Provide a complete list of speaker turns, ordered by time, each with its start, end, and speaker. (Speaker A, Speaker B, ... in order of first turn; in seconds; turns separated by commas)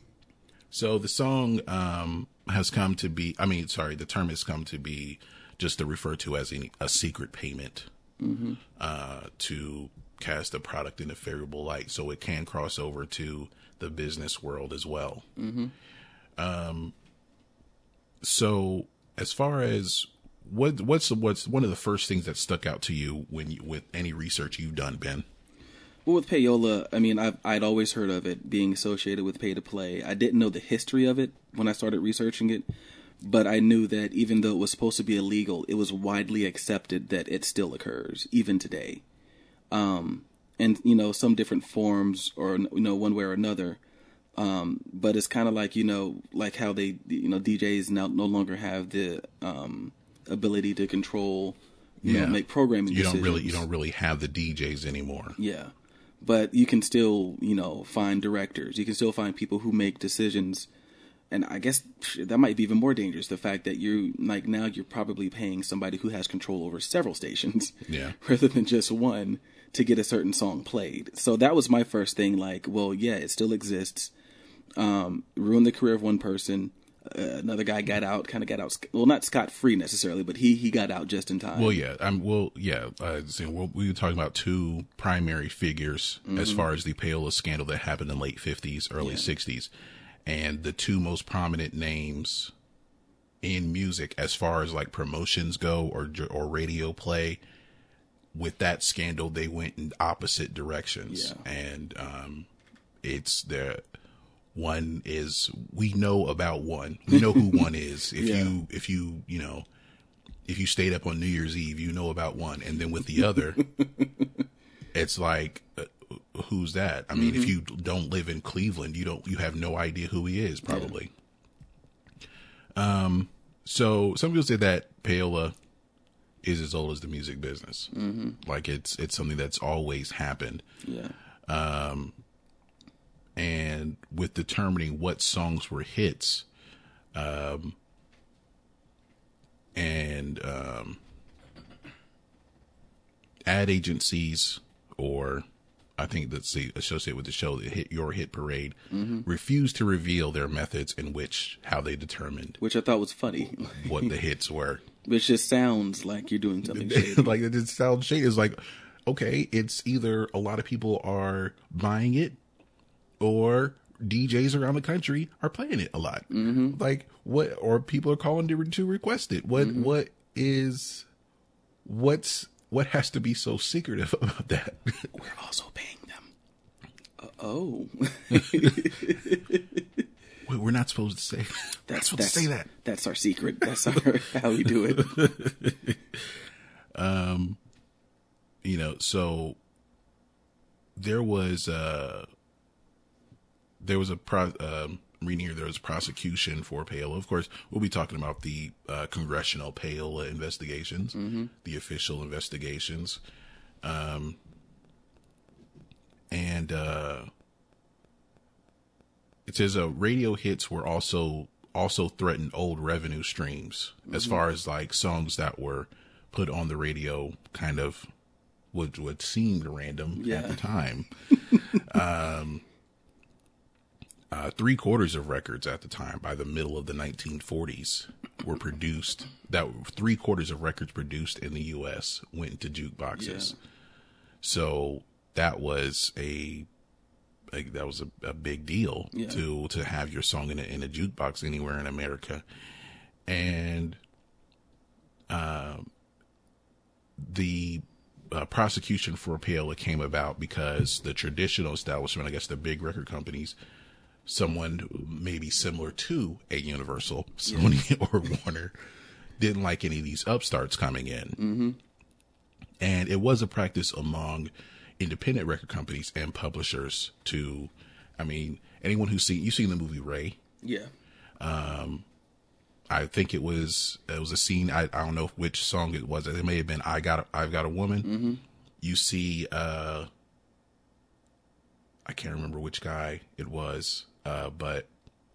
Speaker A: 0.7-7.9, Speaker B: 8.2-8.6, Speaker A: 8.8-15.3, Speaker B: 15.4-15.7, Speaker A: 16.4-16.9, Speaker A: 18.2-25.3, Speaker B: 26.1-32.7, Speaker B: 33.2-39.0, Speaker B: 39.7-43.8, Speaker B: 44.4-53.7, Speaker A: 52.0-55.4, Speaker B: 55.4-60.7, Speaker B: 61.3-74.1, Speaker A: 67.9-68.2, Speaker B: 74.8-81.8, Speaker A: 81.6-89.7, Speaker B: 86.3-86.7, Speaker B: 89.0-89.3, Speaker A: 90.3-92.5, Speaker A: 93.4-97.4, Speaker A: 98.3-102.5, Speaker B: 101.1-101.4, Speaker A: 103.0-103.8, Speaker A: 104.5-109.7, Speaker B: 107.1-108.5, Speaker A: 110.5-113.6, Speaker B: 113.2-114.2, Speaker A: 114.9-121.1, Speaker B: 117.1-117.5, Speaker B: 120.7-121.0, Speaker A: 122.8-125.6, Speaker A: 126.4-130.6, Speaker B: 127.9-128.4, Speaker B: 130.8-131.2, Speaker A: 131.5-132.2, Speaker A: 133.4-136.5, Speaker A: 137.1-137.8, Speaker A: 139.8-141.0, Speaker A: 143.5-145.4, Speaker A: 146.0-152.6, Speaker B: 148.9-149.3, Speaker B: 152.6-154.1, Speaker A: 153.7-154.8, Speaker B: 155.0-157.4, Speaker A: 156.7-162.4, Speaker A: 163.2-171.1, Speaker B: 166.3-166.8, Speaker B: 169.6-169.9, Speaker A: 171.8-175.1, Speaker B: 175.1-176.3, Speaker B: 177.2-179.8, Speaker A: 178.3-178.9, Speaker A: 180.4-182.7, Speaker B: 181.9-185.2, Speaker A: 185.0-185.9, Speaker A: 186.9-187.6, Speaker A: 188.6-189.6, Speaker A: 191.0-192.3, Speaker A: 193.8-203.2, Speaker B: 201.1-201.5, Speaker A: 203.8-204.4, Speaker A: 206.3-207.3, Speaker A: 209.5-218.1, Speaker B: 214.1-214.4, Speaker A: 218.7-222.6, Speaker B: 220.2-220.6, Speaker A: 224.3-233.6, Speaker B: 233.1-233.6, Speaker A: 234.4-236.7, Speaker A: 237.5-242.4, Speaker B: 239.1-239.4, Speaker A: 243.3-244.0, Speaker A: 245.3-245.9, Speaker A: 247.2-253.6, Speaker A: 254.3-258.7, Speaker B: 257.5-257.8, Speaker A: 259.4-261.4, Speaker B: 261.4-261.8, Speaker A: 262.8-270.4, Speaker B: 270.6-270.9, Speaker A: 271.4-272.1, Speaker A: 272.9-278.1, Speaker B: 278.0-278.4, Speaker A: 278.8-280.1, Speaker A: 282.1-284.9